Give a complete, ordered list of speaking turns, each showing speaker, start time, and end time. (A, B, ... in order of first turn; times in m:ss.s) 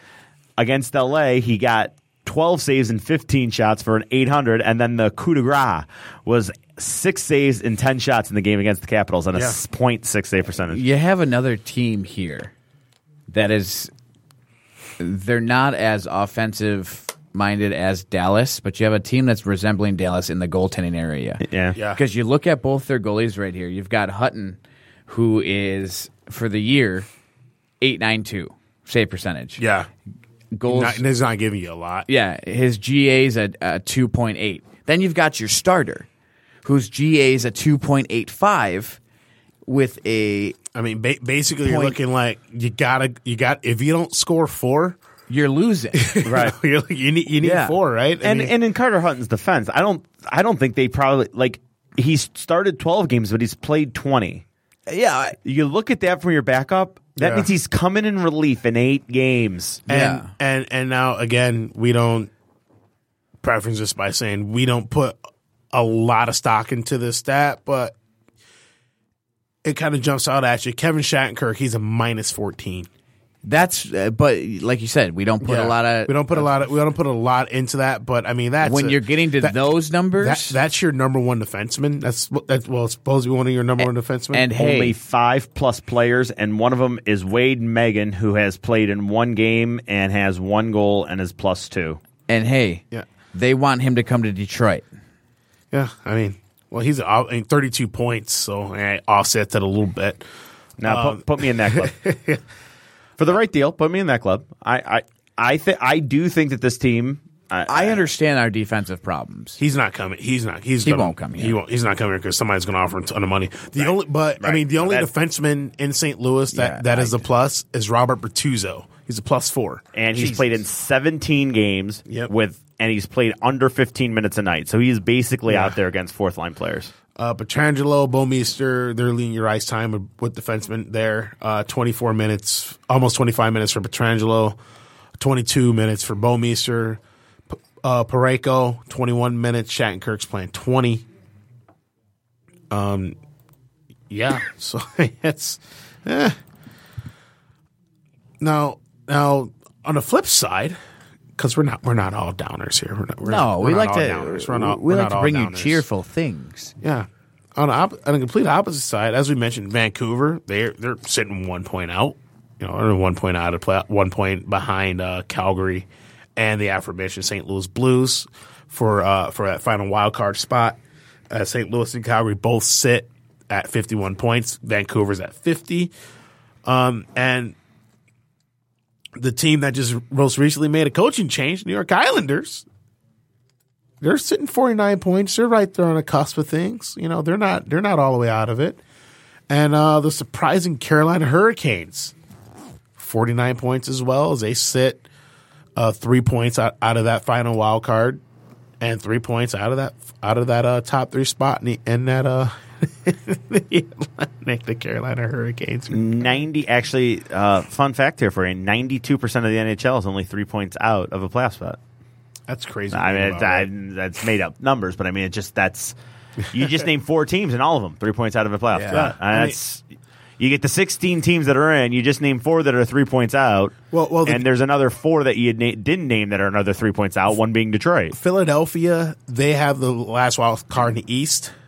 0:00.6-0:10.8 A
0:09.3-0:09.6 B
0:10.7-0:12.5 C
0:13.3-0:13.9 C
0:15.0-0:27.1 C
0:21.4-0:21.8 A
0:21.8-0:22.0 B
0:27.8-0:29.6 C
0:29.6-0:29.9 B
0:30.6-0:31.0 C
0:30.7-0:32.1 B
0:32.1-0:36.1 C
0:36.6-0:39.0 C
0:39.7-0:40.6 C
0:40.7-0:45.0 B
0:41.6-0:42.0 C
0:45.3-0:46.2 C
0:46.0-0:48.5 B
0:46.2-0:46.6 A
0:47.4-0:47.8 C
0:48.2-0:54.4 A
0:54.9-0:55.4 C
0:55.4-0:59.8 A
0:57.2-0:57.5 B
0:59.9-1:00.3 C
0:59.9-1:02.3 B
1:03.4-1:05.2 B
1:05.7-1:08.0 B
1:09.6-1:12.9 B
1:13.4-1:16.5 C
1:15.4-1:24.5 B
1:18.6-1:20.6 C
1:23.8-1:25.0 C
1:24.6-1:32.0 A
1:32.3-1:34.8 C
1:35.7-1:40.3 B
1:40.8-1:42.0 A
1:40.8-1:42.4 B
1:43.2-1:48.0 A
1:47.7-1:49.6 C
1:49.6-2:00.6 B
1:50.8-1:51.6 C
1:53.8-1:55.1 A
1:56.5-1:57.2 C
2:00.0-2:06.9 A
2:05.5-2:05.8 B
2:07.2-2:14.6 B
2:15.2-2:21.1 B
2:22.7-2:23.2 B
2:24.1-2:26.4 B
2:28.4-2:30.8 B
2:31.4-2:35.8 B
2:33.2-2:36.7 C
2:36.8-2:50.8 B
2:51.3-2:55.9 B
2:56.6-2:57.6 B
2:59.2-3:02.7 B
3:04.0-3:08.8 B
3:09.5-3:12.1 B
3:13.0-3:15.0 B
3:15.8-3:18.2 B
3:18.8-3:26.0 B
3:25.9-3:31.8 A
3:32.5-3:33.7 B
3:32.9-3:36.0 A
3:36.5-3:39.8 A
3:38.7-3:39.1 C
3:38.9-3:39.6 B
3:40.4-3:48.2 A
3:43.9-3:44.5 B
3:48.1-3:51.5 B